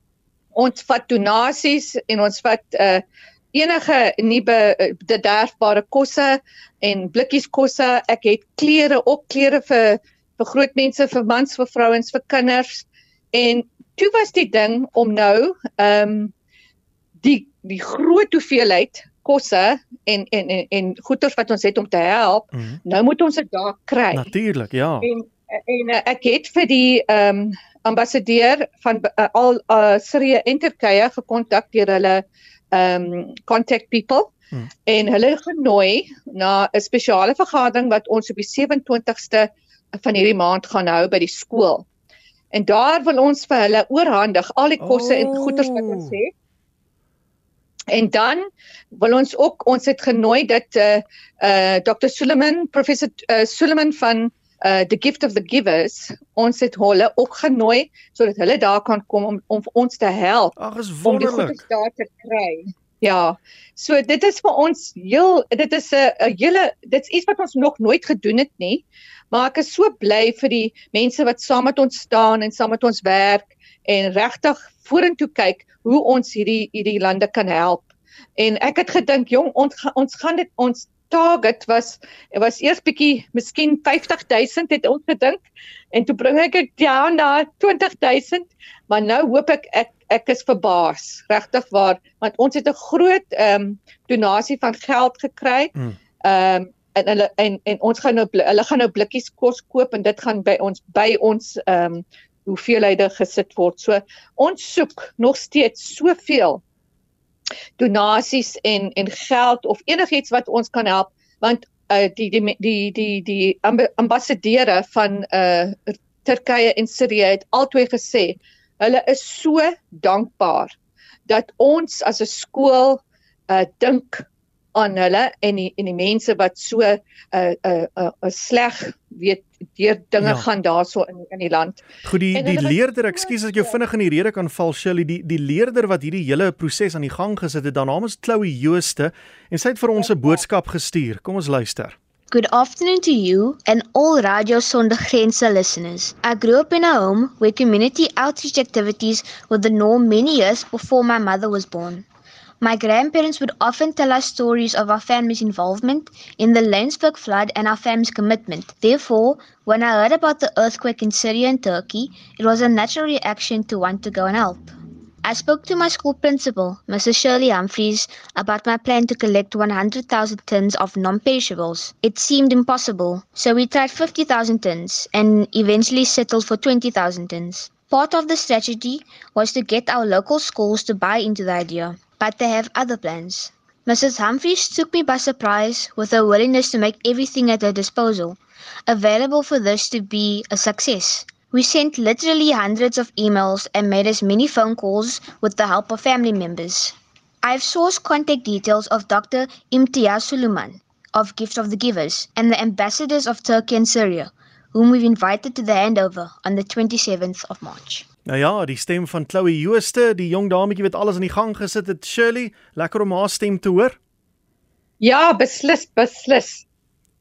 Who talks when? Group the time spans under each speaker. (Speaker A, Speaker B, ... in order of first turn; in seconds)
Speaker A: 0.6-16.3, 17.2-24.3, 25.0-34.3, 34.9-41.9, 42.5-46.3, 47.9-106.6, 107.8-120.7, 121.3-133.8, 140.0-140.4, 215.0-216.7
Speaker B: 22.5-22.8, 24.1-25.1, 44.8-46.2, 60.6-61.6, 130.2-130.4, 132.0-142.0, 208.3-214.0
Speaker C: 142.3-152.1, 152.6-164.7, 165.2-208.1